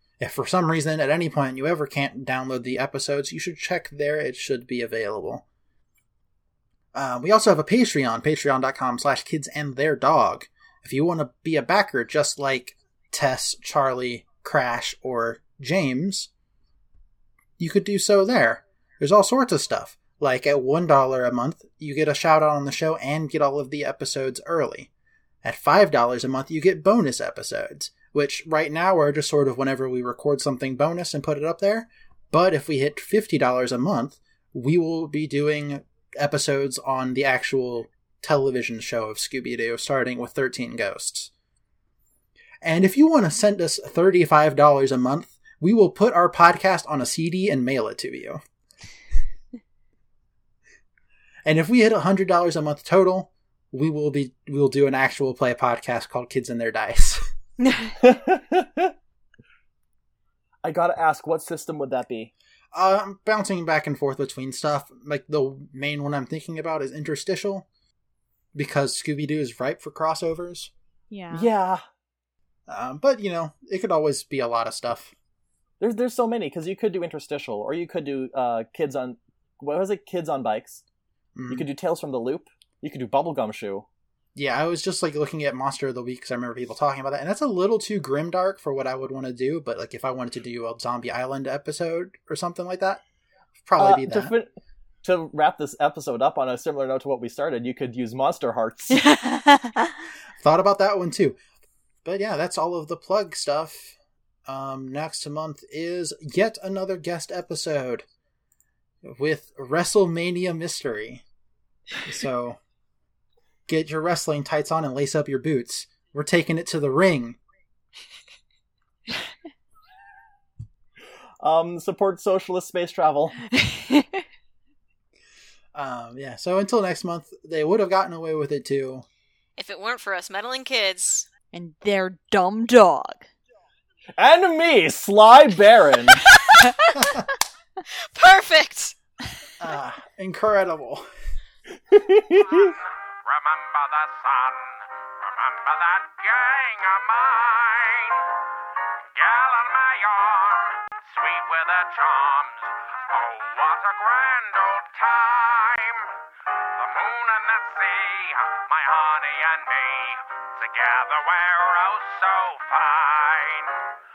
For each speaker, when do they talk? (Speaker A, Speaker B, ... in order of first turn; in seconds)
Speaker A: 0.2-5.4, 6.9-16.3, 17.6-24.9, 25.4-41.3, 42.6-48.4, 51.4-57.2, 62.7-67.7, 68.5-70.7, 72.7-75.1, 81.3-81.7, 84.3-93.0, 93.6-94.3, 100.4-101.4, 102.0-108.1, 109.0-111.2, 112.0-112.6, 113.7-117.4, 125.7-129.1, 139.6-141.1
Speaker B: 57.6-57.9, 71.1-71.5, 98.9-99.9, 123.5-124.2, 131.5-133.3
Speaker C: 58.0-58.9, 60.6-62.3, 71.3-71.8, 75.8-80.8, 81.5-83.8, 93.8-94.5, 95.0-99.0, 121.4-123.4, 134.2-136.3, 141.9-142.7
Speaker D: 129.6-131.3, 136.5-136.8, 137.9-138.9
Speaker E: 142.5-148.2, 149.1-156.1, 156.8-163.8